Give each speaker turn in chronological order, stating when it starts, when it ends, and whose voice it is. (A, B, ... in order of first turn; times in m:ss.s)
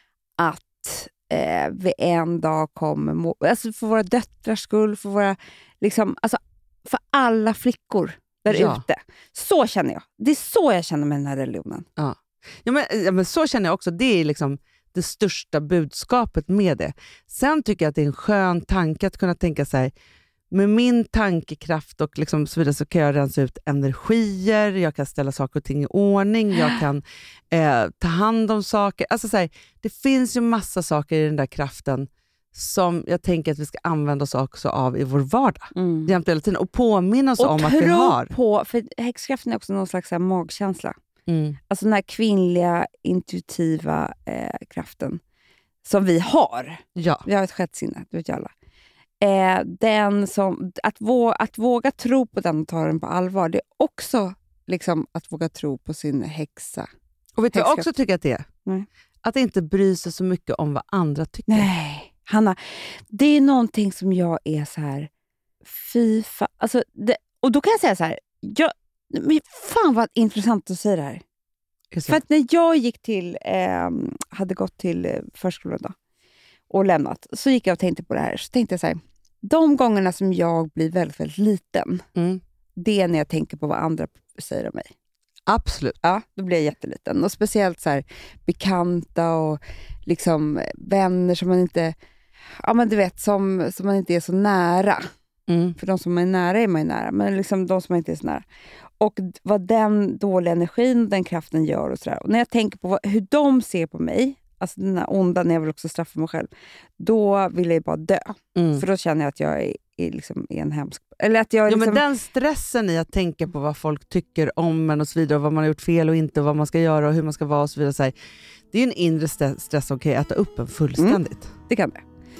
0:00.4-0:11.8 A
0:08.5-0:08.8 B
0:12.0-0:19.9 B
0:20.5-0:38.3 B
0:35.7-0:36.2 A
0:37.4-0:40.9 A
0:41.3-0:41.6 B
0:41.7-0:45.2 A
0:45.8-0:48.5 A
0:47.0-0:47.2 B
0:49.2-0:56.9 A
0:57.4-0:58.4 B
0:57.5-0:57.9 A
0:59.2-1:01.7 B
1:01.5-1:05.1 A
1:05.6-1:11.2 A
1:11.9-1:12.2 B
1:12.0-1:15.9 A
1:16.7-1:22.0 A
1:22.2-1:22.4 B
1:22.8-1:24.9 A
1:25.5-1:26.0 B
1:26.0-1:31.9 A
1:32.6-1:35.0 A
1:35.5-1:35.8 B
1:35.8-1:38.4 A
1:39.0-1:52.0 A
1:48.6-1:48.8 B
1:51.7-1:58.1 B
1:58.7-2:01.5 B
2:01.0-2:02.0 A